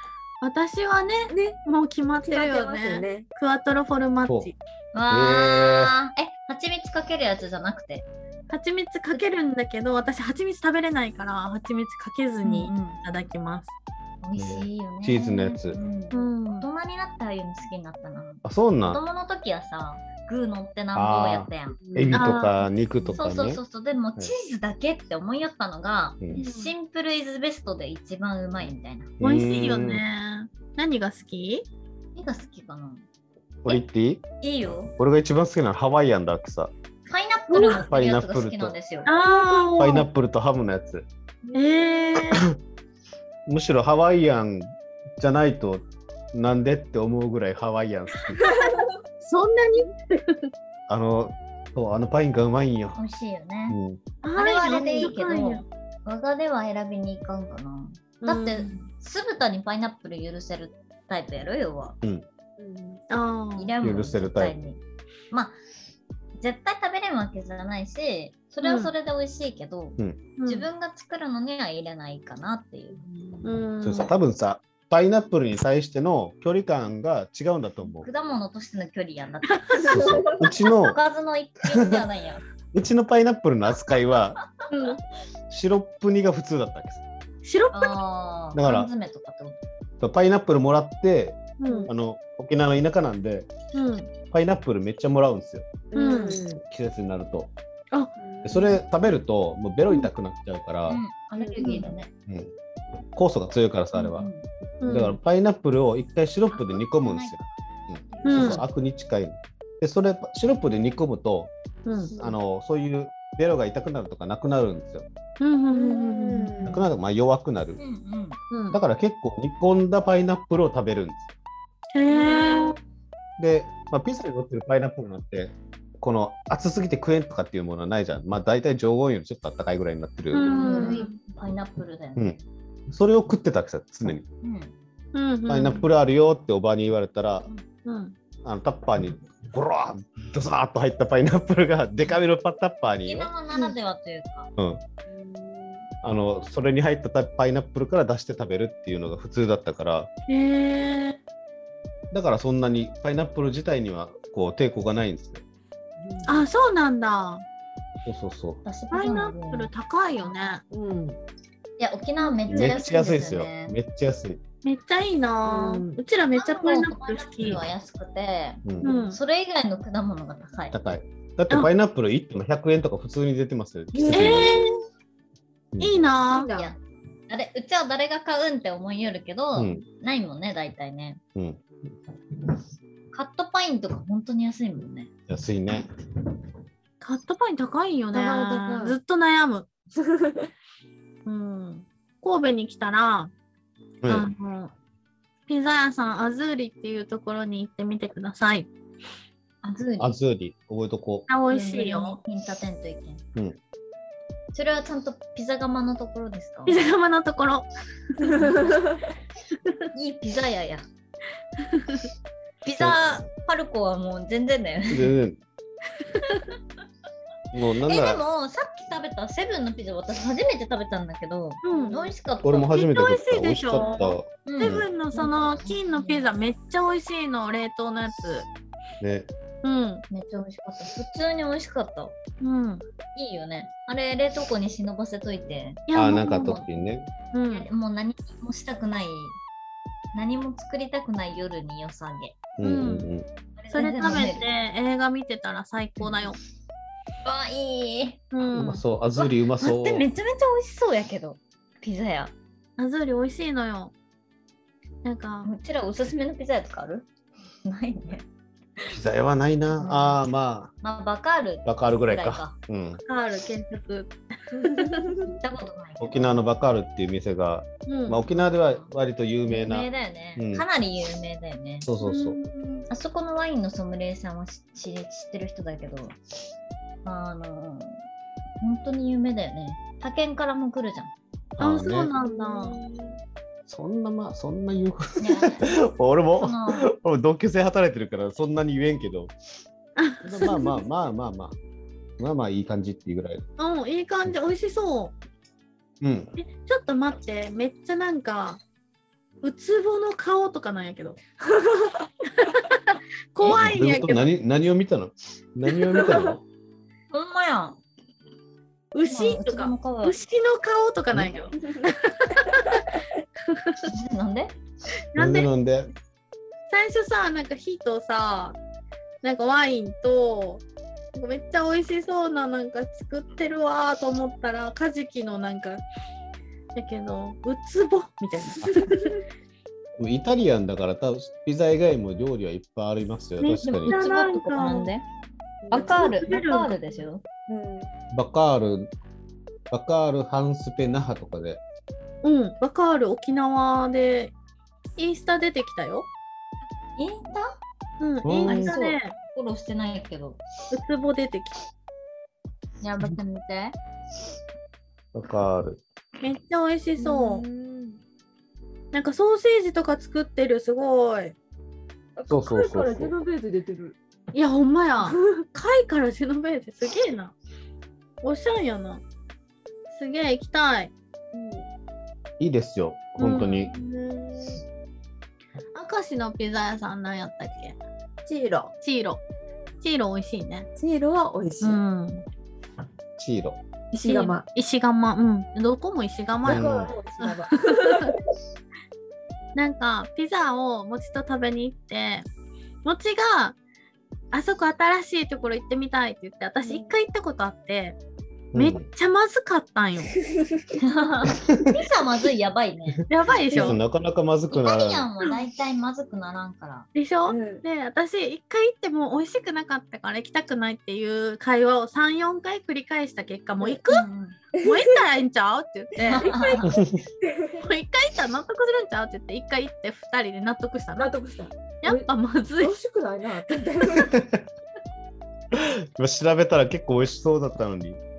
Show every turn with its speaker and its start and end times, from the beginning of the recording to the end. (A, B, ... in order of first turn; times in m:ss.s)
0:00.4-0:04.5 A
0:01.3-0:01.6 B
0:02.2-0:03.3 B
0:04.9-0:08.1 C
0:05.1-0:05.9 D
0:08.5-0:13.7 A
0:12.4-0:13.0 C
0:14.2-0:21.8 C
0:14.4-0:15.8 D
0:16.1-0:16.7 A
0:18.4-0:19.0 D
0:20.9-0:23.6 D
0:21.9-0:22.3 B
0:22.1-0:22.6 A
0:23.1-0:29.2 C
0:26.4-0:26.7 A
0:29.2-0:30.0 D
0:29.2-0:31.6 A
0:32.2-0:33.0 C
0:33.6-0:34.2 D
0:34.4-0:34.9 C
0:34.9-0:36.7 D
0:37.1-0:39.1 C
0:37.6-0:37.8 A
0:37.6-0:38.8 D
0:39.1-0:40.1 A
0:39.2-0:39.7 B
0:39.8-0:41.1 D
0:41.4-0:42.2 B
0:41.5-0:42.5 A
0:42.3-0:42.6 D
0:43.5-0:48.4 D
0:48.4-0:48.9 B
0:48.4-0:48.7 A
0:49.2-0:50.5 A
0:50.9-0:53.0 D
0:53.0-0:53.8 C
0:53.7-0:54.0 D
0:54.2-0:55.7 A
0:54.4-1:02.0 C
0:58.2-0:58.8 A
1:02.6-1:03.0 B
1:03.1-1:03.7 A
1:03.6-1:04.8 C
1:03.8-1:04.6 D
1:05.3-1:05.6 C
1:06.4-1:13.0 C
1:08.6-1:08.9 A
1:10.4-1:10.7 A
1:13.0-1:13.5 B
1:13.4-1:14.1 A
1:13.8-1:18.1 D
1:18.0-1:22.4 C
1:19.8-1:20.5 B
1:19.9-1:21.0 D
1:21.6-1:22.1 D
1:22.7-1:24.4 D
1:24.7-1:25.0 A
1:25.5-1:27.0 D
1:27.4-1:28.0 A
1:27.7-1:29.6 C
1:28.6-1:28.9 D
1:30.0-1:33.5 D
1:31.6-1:31.9 A
1:33.7-1:34.1 A
1:34.3-1:35.7 D
1:35.9-1:36.6 B
1:36.0-1:36.4 A
1:36.7-1:37.5 D
1:38.2-1:38.8 B
1:38.4-1:41.0 D
1:40.9-1:42.1 C
1:41.4-1:41.9 B
1:41.6-1:41.9 A
1:42.3-1:42.5 D
1:43.1-1:44.3 D
1:44.0-1:44.5 C
1:44.8-1:45.2 A
1:44.8-1:51.5 D
1:46.5-1:47.4 C
1:48.2-1:48.6 B
1:48.2-1:48.6 A
1:51.8-1:52.1 A
1:52.1-1:52.4 B
1:52.2-1:55.1 D
1:55.4-1:56.6 A
1:55.7-1:56.9 B
1:56.7-1:57.8 D
1:57.8-1:58.4 C
1:58.5-1:58.8 A
1:58.7-2:01.3 D
2:01.9-2:02.8 A
2:02.1-2:02.8 B
2:03.4-2:10.8 D
2:10.3-2:11.2 A
2:10.5-2:12.4 C
2:10.6-2:11.0 B
2:12.9-2:14.2 D
2:14.4-2:14.8 C
2:15.1-2:15.9 A
2:15.5-2:17.5 D
2:17.8-2:18.2 A
2:18.4-2:23.3 D
2:23.0-2:24.5 C
2:25.1-2:25.9 B
2:26.0-2:30.1 D
2:30.3-2:31.2 A
2:32.1-2:35.4 D
2:36.0-2:36.5 B
2:36.3-2:37.4 A
2:38.1-2:38.6 D
2:38.6-2:39.7 C
2:38.9-2:40.6 A
2:40.7-2:41.2 B
2:41.8-2:43.8 C
2:42.5-2:44.4 D
2:44.6-2:47.6 A
2:45.4-2:46.0 B
2:46.3-2:50.8 C
2:48.6-2:48.9 D
2:48.8-2:49.2 A
2:50.7-2:54.6 D
2:53.9-2:54.6 B
2:54.1-2:54.7 A
2:55.7-2:56.0 D
2:55.8-2:56.7 A
2:56.3-3:01.2 C
2:59.6-2:59.8 D
3:01.4-3:01.9 D
3:03.1-3:05.1 C
3:05.3-3:05.9 D
3:07.0-3:09.7 A
3:08.1-3:09.0 B
3:10.0-3:10.5 B
3:11.3-3:13.3 A
3:14.0-3:14.3 D
3:14.1-3:14.7 A
3:15.5-3:18.7 A
3:19.6-3:20.1 C
3:20.0-3:21.3 D
3:21.3-3:22.2 A
3:21.5-3:23.2 C
3:24.5-3:26.9 C
3:26.7-3:28.6 A
3:28.3-3:29.0 B
3:30.0-3:30.8 C
3:31.7-3:32.1 A
3:32.6-3:35.1 C
3:32.8-3:33.2 D
3:34.9-3:35.4 D
3:37.5-3:38.2 D
3:37.8-3:42.8 C
3:41.6-3:42.1 A
3:41.7-3:42.1 B
3:42.4-3:44.9 D
3:42.7-3:48.5 A
3:44.4-3:46.3 C
3:49.0-3:49.3 D
3:49.6-3:50.0 A
3:50.1-3:52.2 C
3:52.4-3:52.8 A
3:53.2-3:56.7 C
3:55.9-3:56.6 A
3:55.9-3:57.1 D
3:57.3-3:57.7 A
3:57.5-3:59.4 C
4:00.1-4:02.4 C
4:02.6-4:03.3 D
4:02.6-4:03.1 A
4:03.6-4:04.5 C
4:03.7-4:06.4 A
4:07.2-4:08.2 C
4:08.3-4:08.8 A
4:08.5-4:10.1 D
4:09.2-4:12.3 C
4:12.8-4:13.9 A
4:15.0-4:15.5 A
4:15.4-4:17.1 C
4:17.6-4:18.3 C
4:18.9-4:20.7 D
4:19.8-4:20.2 C
4:20.8-4:22.6 C
4:21.6-4:23.0 D
4:23.0-4:25.1 A
4:24.6-4:25.4 B
4:25.3-4:26.4 C
4:26.0-4:30.6 D
4:27.9-4:28.2 A
4:28.3-4:28.9 C
4:29.5-4:31.9 C
4:31.9-4:32.4 D
4:32.0-4:32.9 A
4:32.9-4:36.1 C
4:37.0-4:38.0 C
4:38.6-4:41.1 C
4:41.6-4:42.1 D
4:41.6-4:42.8 A
4:42.2-4:43.2 B
4:43.7-4:49.4 D
4:45.2-4:45.8 C
4:46.4-4:46.9 C
4:50.0-4:50.8 A
4:50.2-4:51.6 D
4:52.2-4:53.4 D
4:53.6-4:55.2 A
4:56.0-4:56.4 D
4:56.4-4:58.6 A
4:59.4-5:01.2 A
5:01.5-5:02.1 B
5:02.4-5:04.3 A
5:03.4-5:06.4 D
5:05.7-5:06.4 B
5:07.1-5:07.8 C
5:08.9-5:13.0 A
5:09.1-5:10.2 C
5:11.1-5:11.5 D
5:13.5-5:13.9 A
5:13.9-5:14.6 C
5:15.1-5:15.5 A
5:15.2-5:15.9 D
5:16.7-5:18.6 A
5:19.2-5:25.8 A
5:26.8-5:29.2 A
5:28.7-5:29.1 B
5:30.0-5:34.0 D
5:33.4-5:34.9 A
5:33.7-5:35.0 C
5:35.6-5:36.5 B
5:35.7-5:37.2 C
5:35.9-5:36.8 A
5:37.5-5:37.9 B
5:38.1-5:38.9 D
5:39.7-5:41.6 D
5:42.2-5:44.3 A
5:45.0-5:46.1 A
5:47.0-5:47.6 C
5:48.0-5:49.2 A
5:48.2-5:48.8 D
5:48.5-5:50.4 C
5:50.7-5:51.6 A
5:52.8-5:53.8 C
5:55.1-5:55.8 D
5:56.2-5:57.4 A
5:57.0-5:58.0 B
5:58.9-6:01.4 A
6:02.2-6:04.0 B
6:02.3-6:03.1 D
6:04.3-6:07.4 A
6:05.0-6:05.4 B
6:08.2-6:09.0 A
6:09.9-6:10.9 A
6:11.3-6:11.7 B
6:12.4-6:13.7 D
6:13.2-6:13.7 A
6:13.6-6:14.6 B
6:15.7-6:19.2 A
6:19.8-6:20.7 A
6:20.8-6:21.8 B
6:21.6-6:22.2 A
6:23.2-6:23.6 D
6:23.9-6:28.2 A
6:24.0-6:24.4 B
6:26.4-6:26.9 D
6:26.5-6:28.2 B
6:29.6-6:32.3 A
6:32.8-6:33.6 A
6:34.3-6:38.0 A
6:36.6-6:37.0 B
6:38.5-6:38.9 D
6:38.5-6:40.2 A
6:40.8-6:43.1 C
6:41.4-6:41.7 D
6:43.1-6:43.8 A
6:43.5-6:43.7 B
6:43.5-6:45.1 D
6:44.5-6:46.9 C
6:46.9-6:54.1 A
6:47.3-6:47.6 B
6:53.9-6:54.4 C
6:54.6-6:55.0 B
6:54.6-6:56.3 A
6:56.0-6:57.6 B
6:56.0-6:56.8 C
6:56.6-6:57.0 D
6:57.6-7:01.1 A
7:01.0-7:02.1 B
7:01.8-7:02.8 A
7:02.6-7:04.2 B
7:04.0-7:04.4 D
7:05.5-7:08.0 D